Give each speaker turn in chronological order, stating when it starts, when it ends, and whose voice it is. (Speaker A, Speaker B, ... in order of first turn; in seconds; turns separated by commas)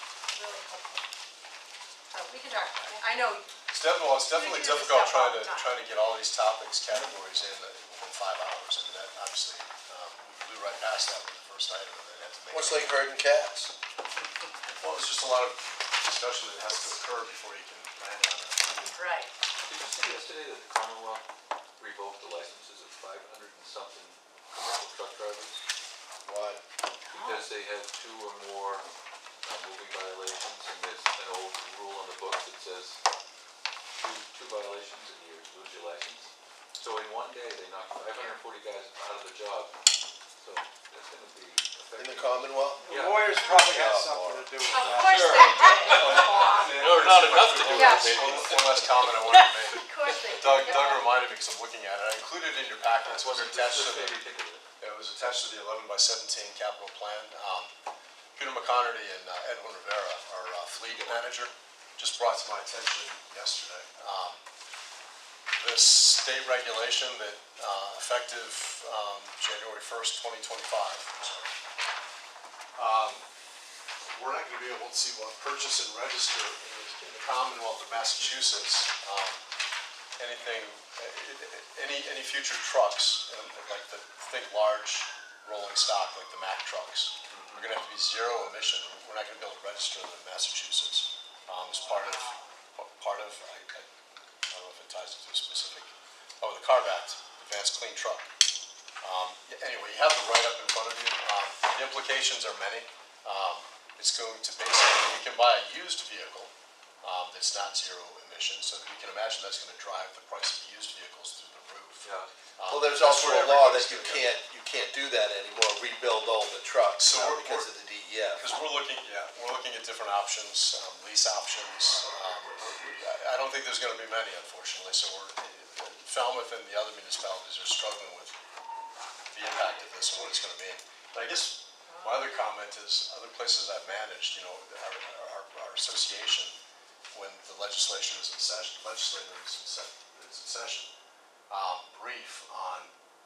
Speaker A: 0.3-1.0, Speaker A: 2.1-3.5, Speaker B: 3.7-13.1, Speaker A: 4.1-5.7, Speaker C: 12.5-13.7, Speaker B: 14.7-19.0, Speaker A: 19.0-19.3, Speaker D: 19.6-21.2, Speaker D: 21.8-25.6, Speaker C: 26.2-26.6, Speaker D: 27.1-28.8, Speaker A: 27.1-27.4, Speaker D: 29.4-33.0, Speaker D: 34.0-39.7, Speaker A: 38.1-38.4, Speaker D: 40.4-43.4, Speaker C: 42.0-44.5, Speaker E: 42.8-46.6, Speaker A: 44.7-46.7, Speaker D: 44.7-50.9, Speaker B: 45.7-54.2, Speaker A: 47.7-48.4, Speaker A: 49.6-51.1, Speaker D: 53.0-54.6, Speaker B: 54.8-57.7, Speaker B: 58.3-64.4, Speaker D: 60.8-61.2, Speaker B: 65.6-71.4, Speaker B: 72.8-73.2, Speaker B: 74.1-79.4, Speaker B: 80.2-93.9, Speaker D: 87.3-87.7, Speaker B: 94.5-98.3, Speaker B: 99.0-106.5, Speaker B: 107.0-114.3, Speaker D: 112.0-112.3, Speaker C: 112.7-118.4, Speaker B: 117.0-117.7, Speaker B: 118.3-128.3, Speaker B: 129.3-136.6, Speaker A: 131.8-132.3, Speaker B: 137.1-140.9, Speaker B: 141.5-142.9